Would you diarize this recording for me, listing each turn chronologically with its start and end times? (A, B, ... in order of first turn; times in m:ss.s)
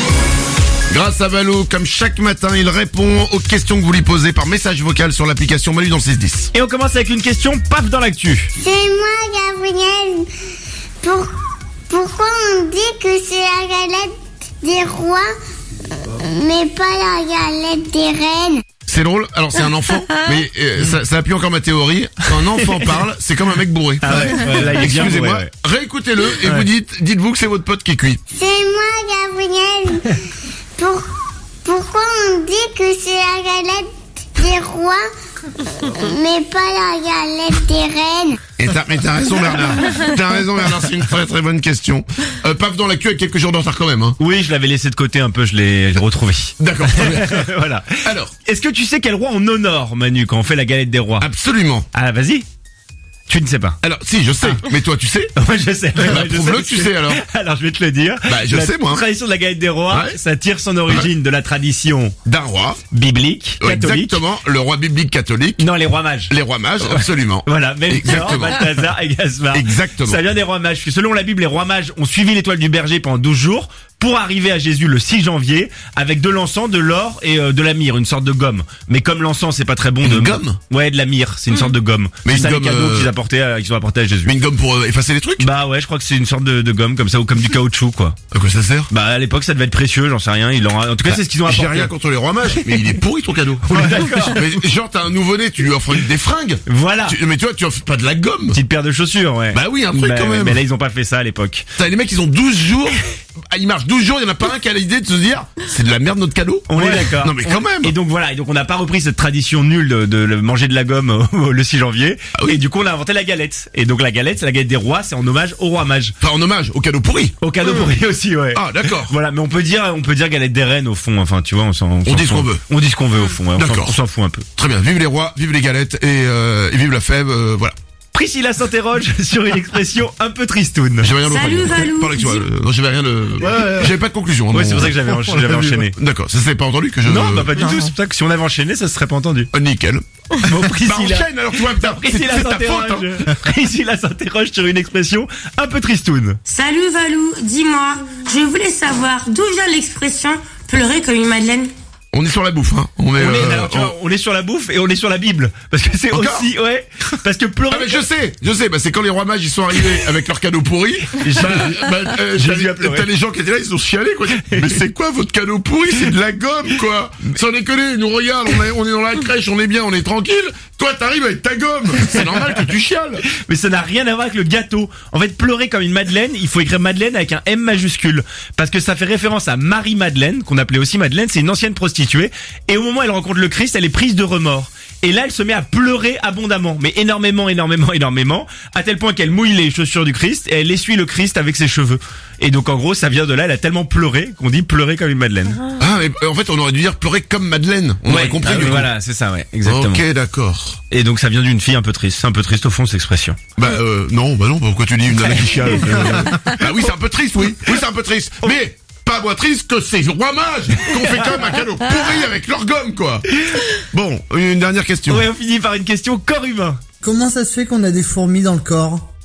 0:00.9-0:06.5 A
0:06.5-0:08.5 B
0:08.6-0:10.3 C
0:11.0-0:11.3 C
0:11.9-0:15.3 C
0:16.0-0:18.6 C
0:18.9-0:28.2 A
0:24.0-0:25.5 B
0:28.3-0:30.2 C
0:30.8-0:31.0 C
0:31.6-0:35.0 C
0:35.6-0:38.4 C
0:38.6-0:44.2 A
0:44.2-0:51.3 B
0:46.6-0:47.5 A
0:48.0-0:48.3 A
0:51.2-0:51.9 A
0:51.9-0:52.4 B
0:53.3-0:53.8 B
0:53.8-0:55.3 A
0:55.4-1:02.2 B
0:55.9-0:57.2 A
0:58.2-0:59.0 A
0:59.9-1:00.2 A
1:02.2-1:02.8 A
1:02.9-1:04.2 B
1:03.6-1:05.7 A
1:05.6-1:24.4 B
1:06.3-1:08.7 A
1:09.5-1:10.2 A
1:20.0-1:20.6 A
1:22.2-1:23.1 A
1:24.2-1:25.5 A
1:25.4-1:28.2 B
1:28.3-1:28.9 A
1:28.9-1:31.9 B
1:31.0-1:38.6 A
1:32.5-1:32.8 B
1:33.7-1:34.5 B
1:36.6-1:37.2 B
1:38.5-1:41.7 B
1:39.5-1:40.6 A
1:41.8-1:47.9 A
1:46.7-1:56.2 B
1:56.2-1:58.0 A
1:57.4-2:04.4 B
1:58.5-1:59.2 A
2:02.0-2:02.6 A
2:03.5-2:04.0 A
2:04.6-2:07.7 A
2:08.1-2:11.1 B
2:11.0-2:15.1 A
2:11.2-2:12.4 D
2:14.5-2:15.9 B
2:15.9-2:17.7 A
2:17.0-2:19.5 B
2:19.5-2:20.0 A
2:20.4-2:26.4 B
2:20.7-2:23.1 A
2:26.5-2:31.7 D
2:32.1-2:33.9 A
2:33.2-2:38.0 B
2:36.1-2:36.5 A
2:37.7-2:53.2 A
2:41.1-2:43.1 B
2:44.3-2:44.8 B
2:52.0-2:52.7 B
2:53.3-3:15.6 B
3:15.8-3:18.9 A
3:18.0-3:20.0 B
3:19.6-3:20.8 A
3:20.9-3:23.4 B
3:23.6-3:33.2 A
3:25.2-3:26.6 B
3:30.8-3:31.4 B
3:33.9-3:35.3 A
3:35.1-3:36.8 B
3:37.0-3:39.1 E